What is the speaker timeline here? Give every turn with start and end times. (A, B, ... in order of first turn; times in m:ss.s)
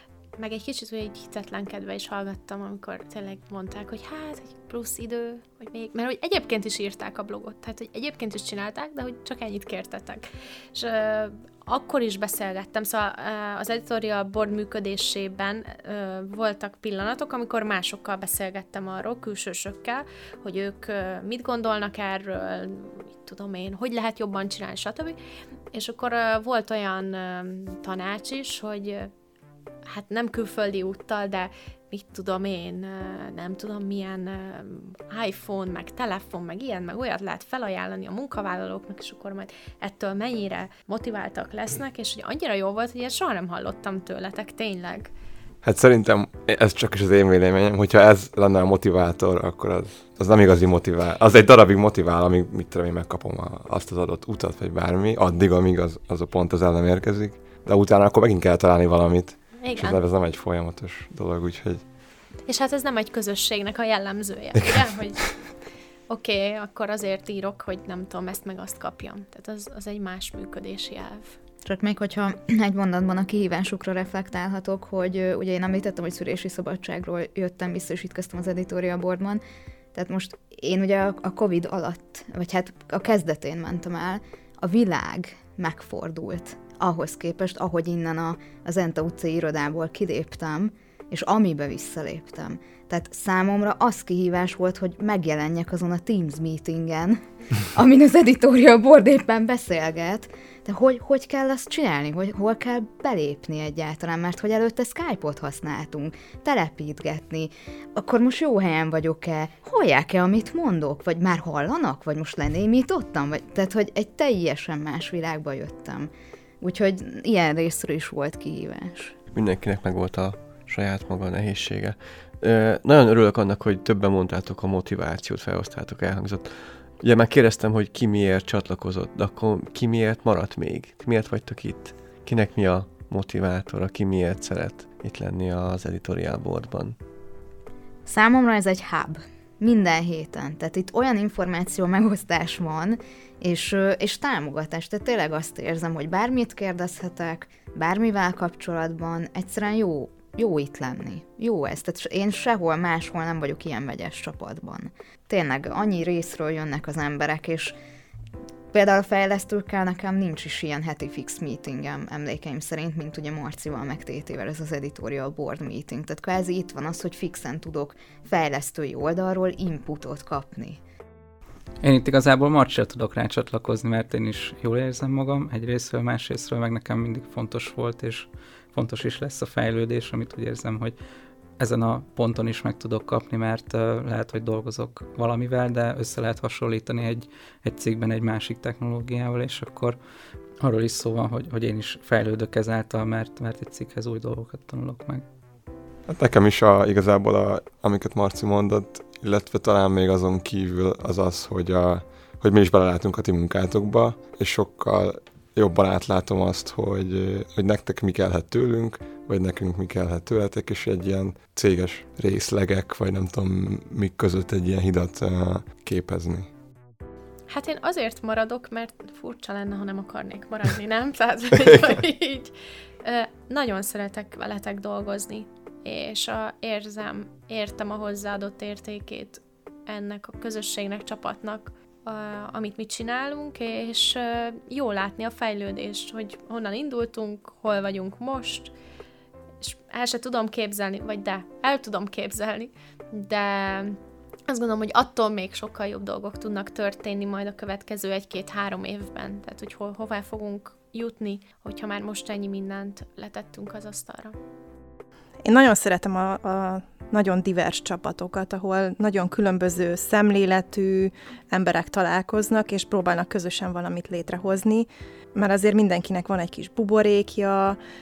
0:00.4-0:25.2 A
0:25.7-0:29.1 A
0:29.9-0:45.1 A
0:45.6-1:01.8 B
0:59.6-1:00.0 A
1:02.4-1:05.4 A
1:06.1-1:11.4 A
1:11.6-1:19.4 C
1:19.9-1:56.1 C
1:56.6-1:59.1 C
1:59.3-2:17.0 D
2:18.0-2:37.8 C
2:38.7-2:50.8 C
2:51.8-3:01.0 E
3:01.6-3:10.0 E
3:10.6-3:15.2 E
3:16.1-3:36.5 B
3:37.5-3:58.7 A
3:59.6-4:14.4 A
4:15.4-4:27.8 F